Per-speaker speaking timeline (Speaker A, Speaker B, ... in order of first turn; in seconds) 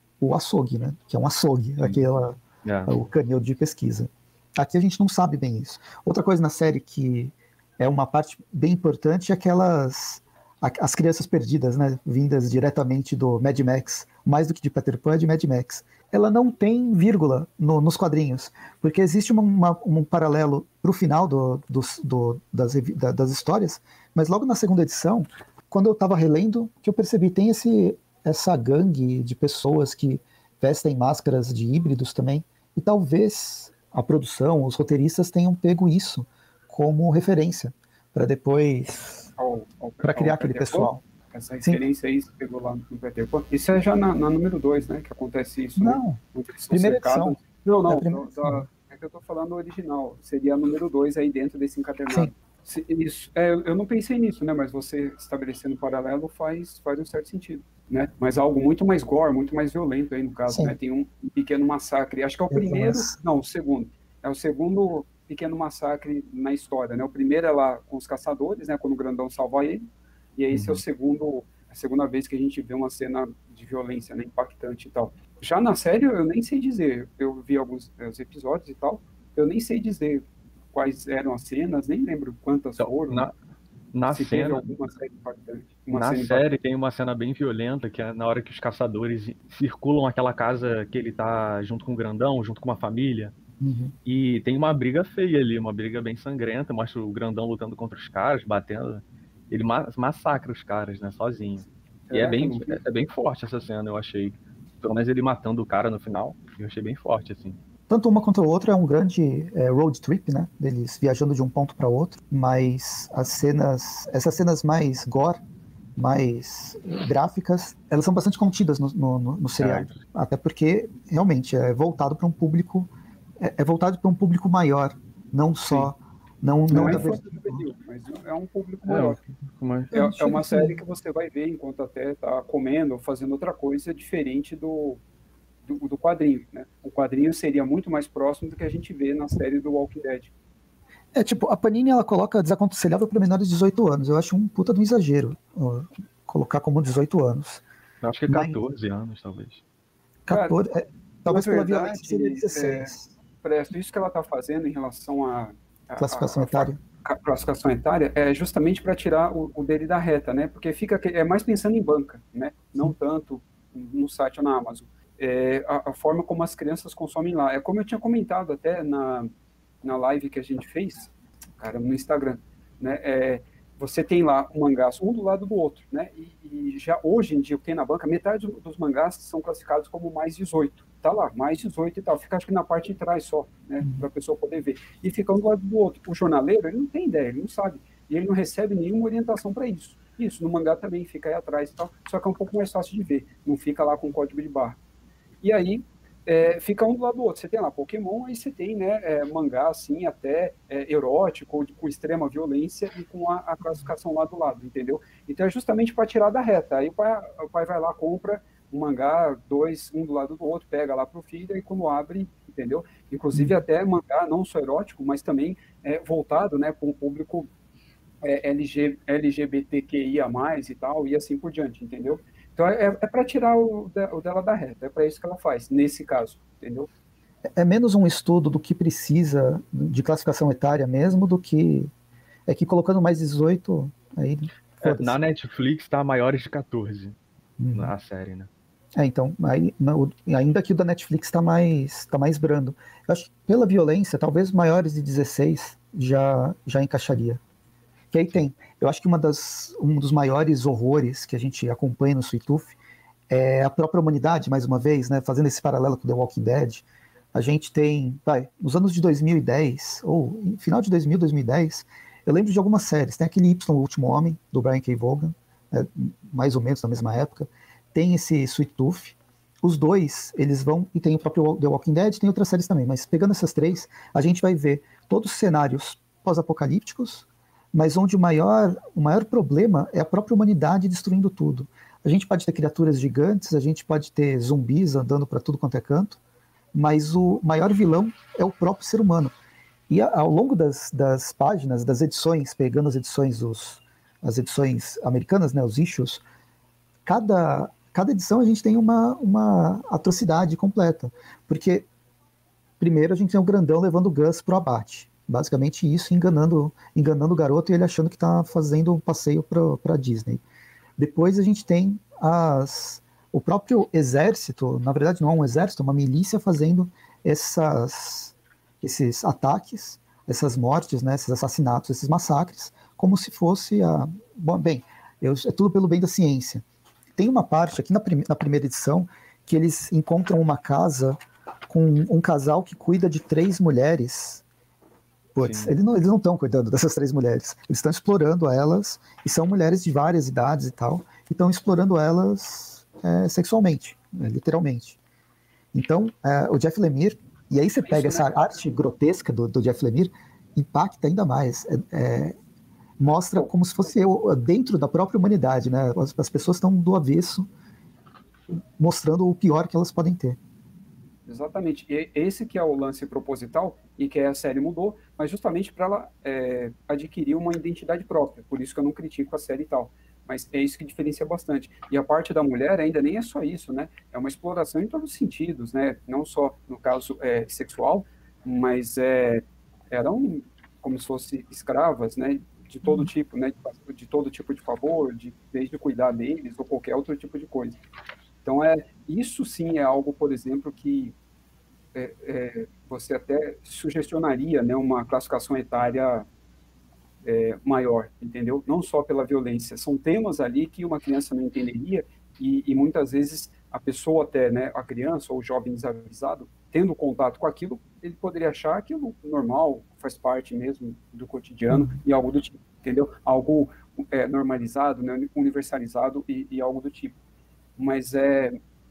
Speaker A: 0.2-39.3, 40.0-41.0, 45.8-46.2, 46.7-48.7, 60.5-60.8, 62.5-63.2, 93.6-93.9, 107.9-115.4, 116.0-127.6, 129.9-130.8, 141.1-147.6, 148.3-148.6, 150.3-153.1, 156.0-156.8, 227.6-231.9, 232.5-235.2, 237.6-237.9, 239.0-247.4, 248.1-252.8, 253.3-286.2, 286.7-289.3, 289.9-296.2, 297.1-301.9, 302.8-310.4, 311.0-326.6, 327.2-334.4, 335.4-345.0, 345.7-352.4, 353.0-357.5, 358.5-360.4, 411.7-412.0
Speaker B: 2.6-2.9, 82.8-83.3, 83.9-84.7, 85.9-93.3, 94.0-107.6, 119.6-120.0, 126.7-127.0, 128.9-129.9, 148.0-149.6, 234.8-237.2, 237.8-238.5, 335.4-335.7
Speaker C: 39.4-83.3, 84.1-86.4, 102.1-102.8, 126.7-129.2, 129.9-135.0, 135.7-140.3, 150.3-150.6, 151.2-169.3, 169.8-194.8, 195.4-217.5, 218.2-226.9, 347.8-348.4, 361.3-387.8, 388.4-391.1, 391.9-396.3, 397.2-417.2, 417.8-418.6